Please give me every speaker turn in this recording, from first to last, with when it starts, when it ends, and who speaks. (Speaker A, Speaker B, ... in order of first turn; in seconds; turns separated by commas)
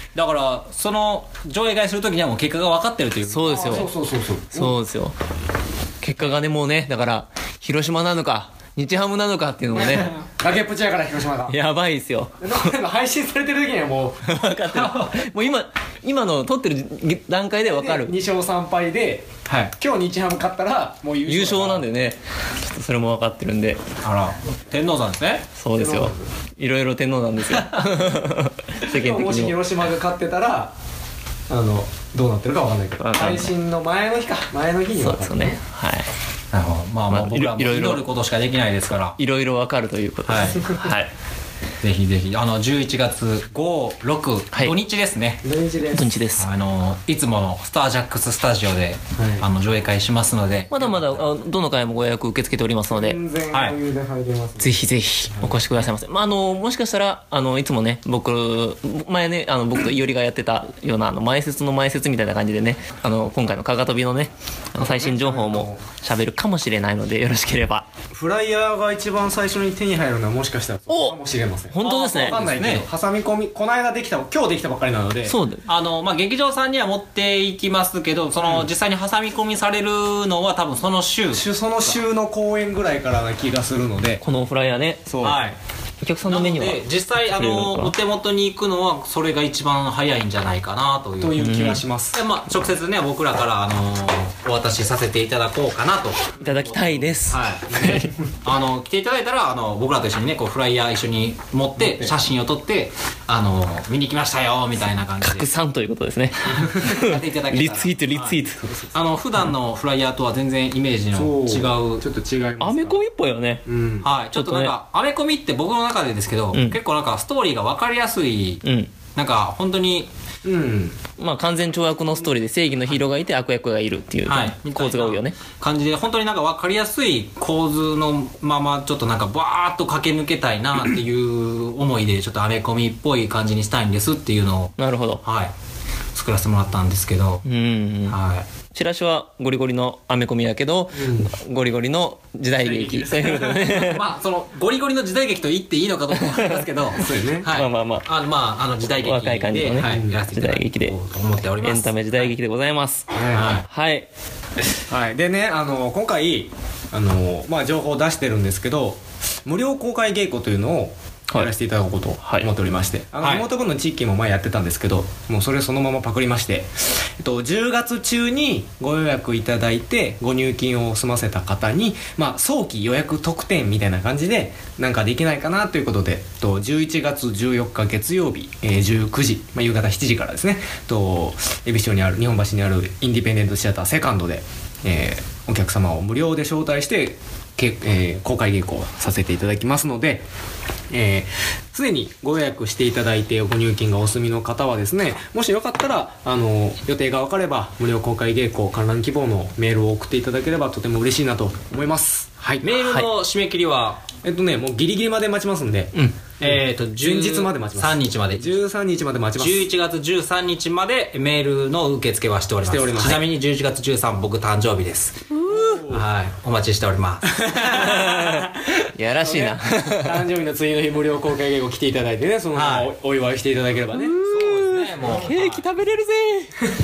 Speaker A: 0.1-3.9, Speaker B: 3.3-3.9, Speaker C: 3.5-4.8, Speaker B: 4.5-5.2, Speaker B: 6.0-10.1, Speaker C: 9.8-11.6, Speaker B: 11.5-12.7, Speaker C: 12.4-14.3, Speaker B: 14.2-18.1, Speaker A: 14.7-15.2, Speaker C: 17.6-21.9, Speaker A: 19.5-19.7, Speaker B: 21.2-23.8, Speaker A: 24.0-25.5, Speaker B: 25.6-29.6, Speaker C: 25.8-26.2, Speaker A: 27.5-27.8, Speaker C: 28.9-30.7, Speaker C: 31.5-35.6, Speaker B: 33.0-33.5, Speaker B: 35.0-36.1, Speaker A: 36.5-39.2, Speaker B: 37.1-38.1, Speaker B: 39.2-41.1, Speaker A: 40.3-40.8, Speaker A: 41.8-45.5, Speaker C: 45.4-46.2, Speaker B: 45.8-46.5, Speaker A: 46.4-51.3, Speaker C: 49.2-49.5, Speaker B: 50.7-53.2, Speaker C: 52.9-54.8, Speaker A: 53.5-53.8, Speaker B: 54.6-67.9, Speaker C: 64.8-65.8, Speaker C: 68.1-75.4, Speaker B: 70.9-71.2, Speaker B: 71.7-72.4, Speaker A: 71.8-72.9, Speaker B: 75.2-75.7, Speaker A: 75.7-81.5, Speaker C: 78.4-78.7, Speaker C: 81.3-84.2, Speaker B: 84.2-85.0, Speaker C: 85.1-85.4, Speaker A: 85.2-85.6, Speaker B: 86.0-88.0, Speaker A: 86.2-91.5, Speaker C: 91.2-92.2, Speaker B: 91.4-91.8, Speaker A: 92.1-105.5, Speaker B: 96.4-98.1, Speaker C: 101.8-102.2, Speaker B: 105.2-108.9, Speaker A: 106.5-108.4, Speaker A: 108.9-112.0, Speaker C: 111.1-113.0, Speaker B: 112.6-113.6, Speaker C: 113.7-114.1, Speaker A: 114.0-118.6, Speaker B: 114.3-114.7, Speaker B: 116.5-116.8, Speaker B: 118.6-118.9, Speaker A: 119.2-120.1, Speaker C: 120.4-121.0, Speaker B: 121.2-125.4, Speaker A: 124.3-135.5, Speaker B: 134.8-135.2, Speaker A: 136.1-137.4, Speaker B: 137.4-138.2, Speaker A: 138.1-138.5, Speaker B: 138.7-144.0, Speaker C: 140.9-141.3, Speaker C: 142.6-143.6, Speaker A: 143.7-152.3, Speaker B: 146.1-146.6, Speaker C: 147.0-147.6, Speaker B: 147.5-148.1, Speaker B: 148.9-150.9, Speaker C: 149.8-150.2, Speaker B: 151.6-153.1, Speaker C: 153.1-153.5, Speaker A: 153.3-153.7, Speaker B: 153.7-154.1, Speaker C: 154.9-190.2, Speaker B: 162.2-162.5, Speaker A: 163.2-163.5, Speaker C: 190.9-202.7, Speaker A: 202.6-204.1, Speaker B: 202.8-203.1, Speaker C: 204.2-209.7, Speaker B: 205.9-206.2, Speaker A: 206.4-208.6, Speaker A: 209.4-215.4, Speaker C: 212.7-213.3, Speaker B: 215.3-215.8, Speaker C: 215.4-216.0, Speaker A: 215.9-218.1, Speaker C: 217.3-224.2, Speaker B: 217.8-220.2, Speaker A: 222.6-222.9, Speaker B: 223.9-226.6, Speaker A: 224.2-225.7